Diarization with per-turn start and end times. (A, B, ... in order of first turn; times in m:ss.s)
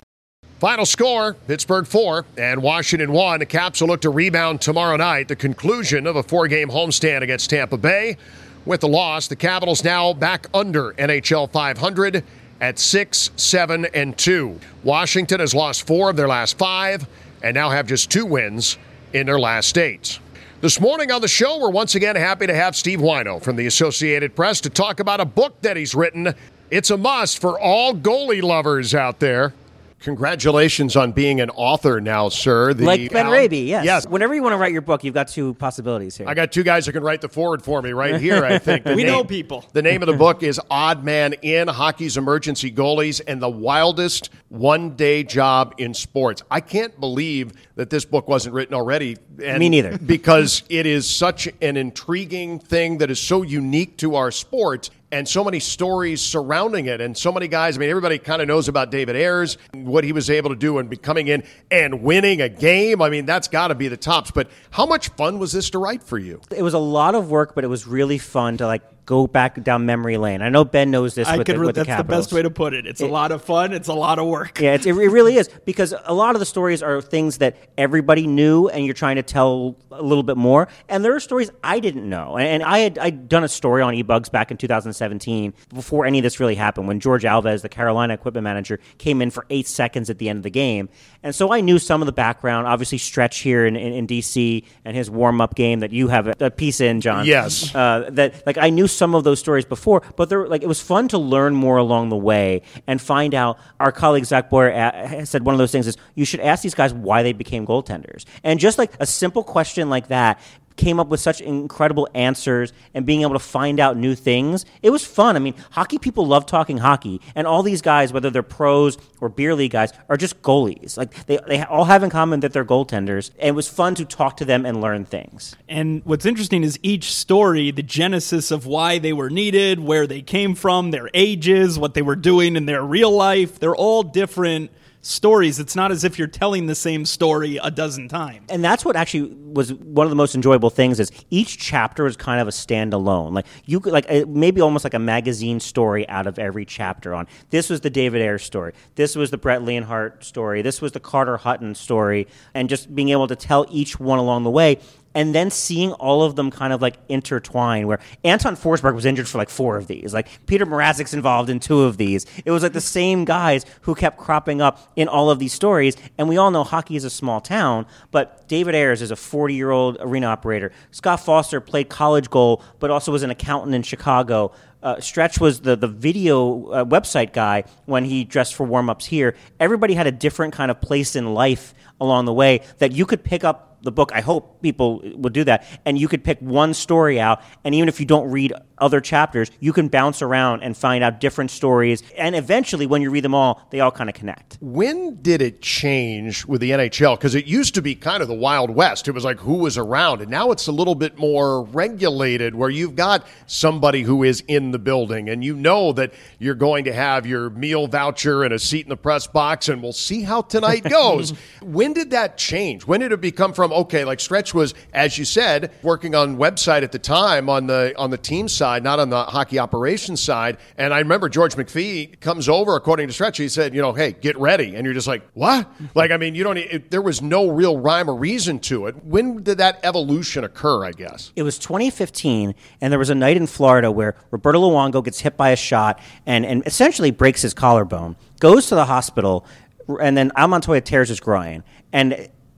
0:00.6-0:34.1 A
0:32.8-0:36.4 B
0:36.2-1:06.4 A
0:38.4-0:39.2 B
0:38.9-0:39.7 C
0:49.5-0:50.0 B
1:06.5-1:12.4 B
1:11.2-1:14.9 C
1:14.6-2:05.5 B
1:37.1-1:37.7 A
2:05.7-2:18.4 C
2:18.5-3:14.6 B
3:14.6-3:51.3 A
3:51.4-4:02.3 B